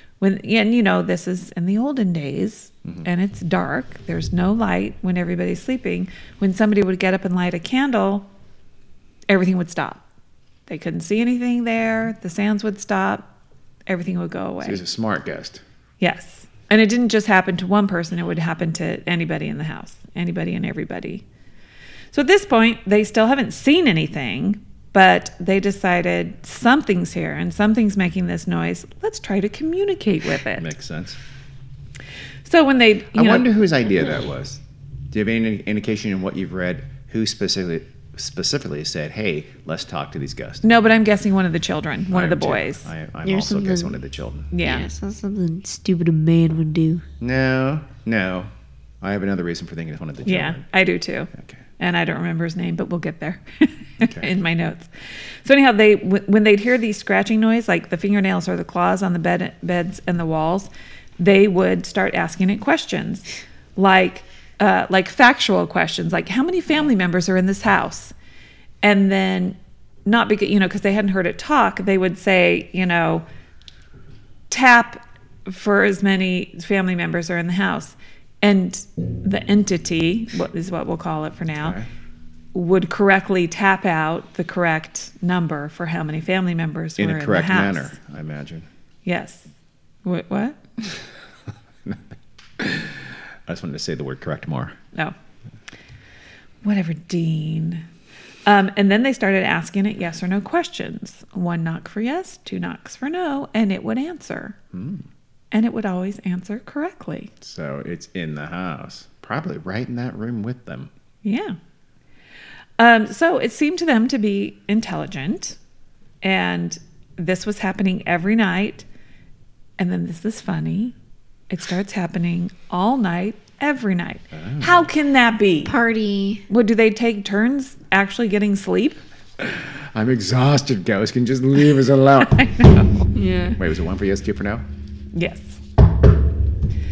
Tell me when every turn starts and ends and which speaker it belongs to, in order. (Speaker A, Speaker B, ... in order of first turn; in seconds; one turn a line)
Speaker A: 0.2-8.3
Speaker A: 9.3-10.0
Speaker A: 10.7-13.3
Speaker A: 13.9-14.8
Speaker B: 14.6-15.6
Speaker A: 16.0-21.2
Speaker A: 22.1-30.7
Speaker B: 30.5-31.2
Speaker A: 32.5-33.5
Speaker B: 33.1-40.6
Speaker A: 40.6-42.9
Speaker B: 42.1-44.5
Speaker C: 43.2-44.0
Speaker A: 44.5-44.9
Speaker C: 44.6-47.0
Speaker B: 47.2-50.6
Speaker A: 50.2-54.9
Speaker B: 51.3-51.6
Speaker B: 54.0-54.3
Speaker A: 55.4-68.1
Speaker A: 68.8-73.2
Speaker A: 74.5-81.8
Speaker B: 81.6-81.9
Speaker A: 82.5-88.0
Speaker B: 87.0-88.7
Speaker A: 89.0-89.5
Speaker A: 90.0-90.9
Speaker B: 92.6-94.8
Speaker A: 96.6-97.8
Speaker A: 98.4-104.5
Speaker B: 104.7-105.1
Speaker A: 105.5-107.3
Speaker B: 107.4-110.9
Speaker A: 111.2-111.6
Speaker A: 112.8-115.6
Speaker A: 116.2-118.8
Speaker A: 119.8-120.9
Speaker A: 121.5-125.7
Speaker B: 124.3-124.9
Speaker C: 125.6-126.4
Speaker A: 126.5-129.0
Speaker B: 129.4-132.9
Speaker A: 132.4-132.9
Speaker C: 133.1-133.6
Speaker B: 133.6-134.6
Speaker A: 135.1-135.6